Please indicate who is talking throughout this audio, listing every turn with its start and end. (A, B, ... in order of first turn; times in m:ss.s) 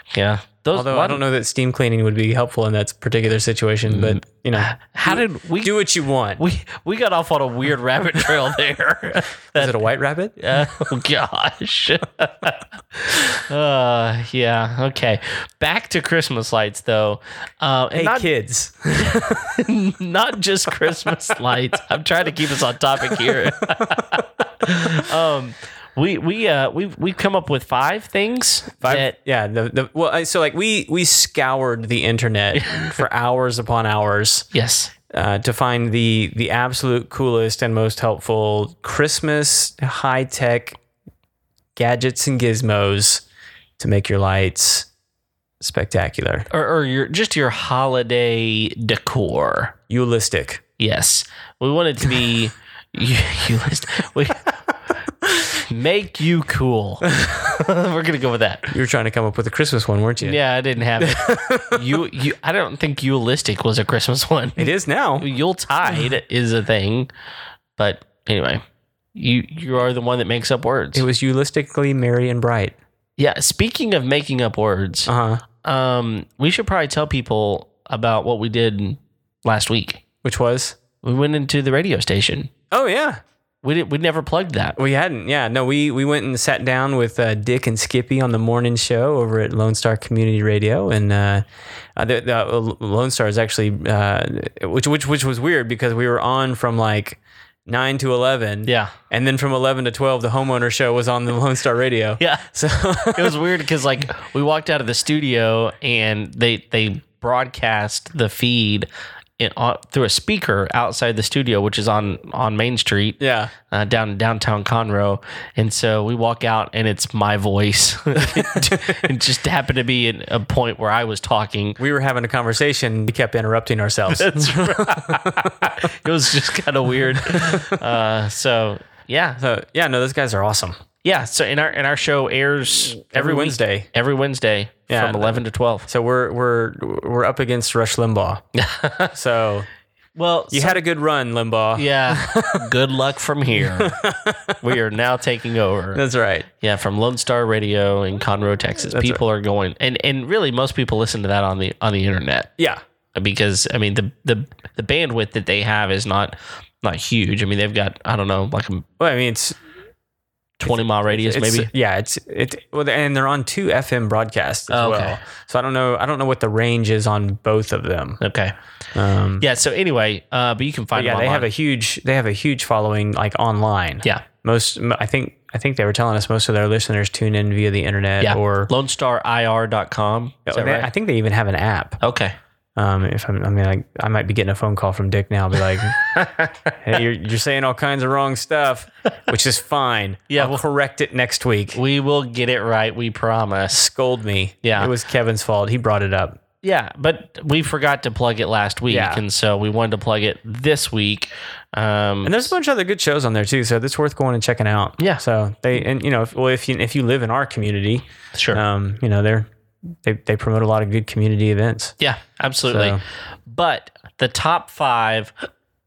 0:00.1-0:01.2 A
0:00.7-0:06.4 B
0:03.9-0:05.8 A
0:06.4-0:09.8 A
0:09.6-0:10.4 B
0:10.4-0:18.3 A
0:17.9-0:19.6 B
0:19.0-0:29.2 A
0:23.2-0:24.0 B
0:28.8-0:34.5 B
0:32.5-0:33.0 A
0:34.5-0:34.9 A
0:35.1-0:40.8 B
0:41.8-0:43.2 B
0:43.8-0:44.9 B
0:45.6-0:46.5 B
0:46.5-0:49.7 A
0:49.9-0:50.6 B
0:50.8-0:54.5 A
0:55.6-0:58.7 A
0:57.2-0:57.4 B
0:58.7-1:00.4 B
1:00.2-1:07.1 A
1:01.0-1:02.0 B
1:04.6-1:05.3 B
1:07.8-1:08.6 A
1:09.2-1:11.0 A
1:11.0-1:12.8 B
1:13.2-1:15.1 A
1:15.1-1:15.4 B
1:15.6-1:20.0 A
1:20.2-1:20.8 B
1:21.0-1:22.5 A
1:22.7-1:23.2 B
1:23.6-1:24.8 A
1:24.8-1:31.4 B
1:32.0-1:43.4 B
1:38.7-1:38.9 A
1:42.2-1:42.4 A
1:43.1-1:48.9 A
1:49.4-1:53.2 A
1:53.2-1:53.5 B
1:53.7-2:01.8 A
1:58.2-1:59.1 B
2:01.8-2:05.9 B
2:04.1-2:09.4 A
2:07.2-2:07.8 B
2:09.4-2:10.8 B
2:11.0-2:15.9 A
2:13.1-2:13.9 B
2:14.9-2:18.4 B
2:18.6-2:19.2 A
2:19.1-2:19.7 B
2:20.2-2:20.8 A
2:20.5-2:22.7 B
2:21.8-2:24.0 A
2:23.6-2:24.6 B
2:24.6-2:26.0 A
2:26.0-2:26.5 B
2:26.6-2:32.5 A
2:28.9-2:29.2 B
2:33.2-2:38.8 A
2:39.0-2:39.6 B
2:40.6-2:41.7 A
2:40.6-2:48.2 B
2:44.7-2:45.2 A
2:48.2-2:48.5 A
2:49.0-2:49.5 B
2:49.4-2:51.5 A
2:50.9-2:58.7 B
2:58.2-3:00.9 A
3:00.5-3:02.0 B
3:02.0-3:02.4 A
3:02.8-3:06.0 B
3:06.0-3:06.8 A
3:06.8-3:11.8 B
3:10.3-3:10.6 A
3:11.7-3:13.8 A
3:13.7-3:16.4 B
3:14.6-3:14.9 A
3:16.6-3:22.5 A
3:18.9-3:19.2 B
3:22.2-3:29.5 B
3:28.4-3:28.6 A
3:30.0-3:32.0 B
3:32.0-3:35.3 A
3:32.6-3:33.0 B